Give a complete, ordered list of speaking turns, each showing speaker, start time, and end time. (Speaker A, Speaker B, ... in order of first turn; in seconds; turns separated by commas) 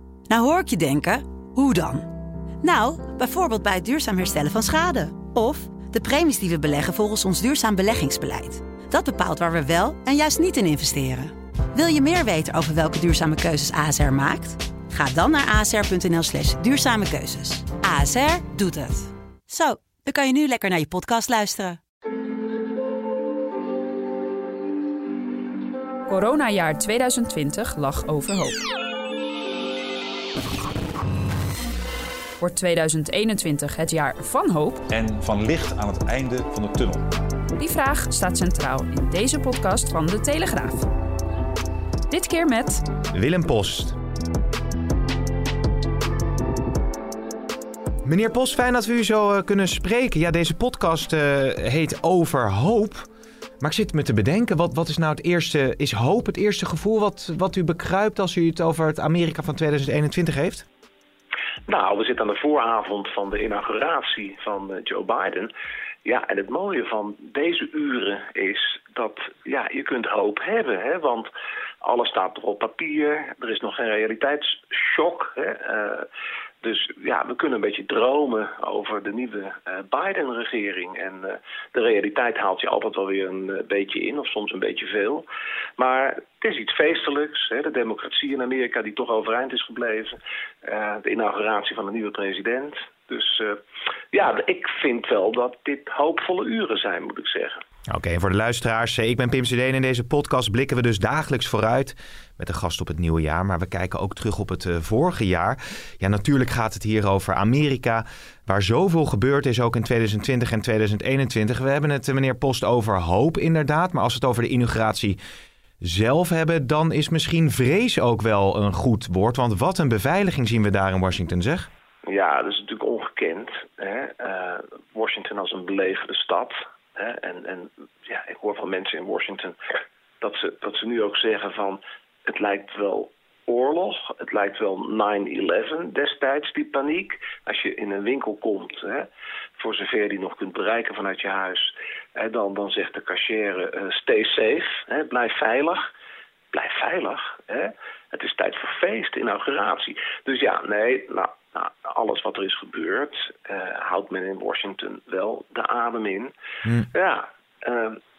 Speaker A: 0.3-2.1, Speaker A: 2.6-21.8, Speaker B: 26.1-28.6, Speaker B: 32.4-34.9, Speaker C: 34.9-37.0, Speaker B: 37.5-40.9, Speaker B: 42.1-42.8, Speaker D: 43.1-44.0, Speaker D: 48.0-53.1, Speaker D: 53.6-60.7, Speaker E: 61.7-65.5, Speaker E: 66.0-71.3, Speaker E: 71.8-76.1, Speaker E: 76.6-85.2, Speaker E: 85.8-93.6, Speaker E: 94.1-97.6, Speaker D: 97.9-115.2, Speaker D: 115.8-121.7, Speaker E: 122.1-129.6, Speaker E: 130.2-145.9, Speaker E: 146.5-156.3, Speaker E: 156.9-158.0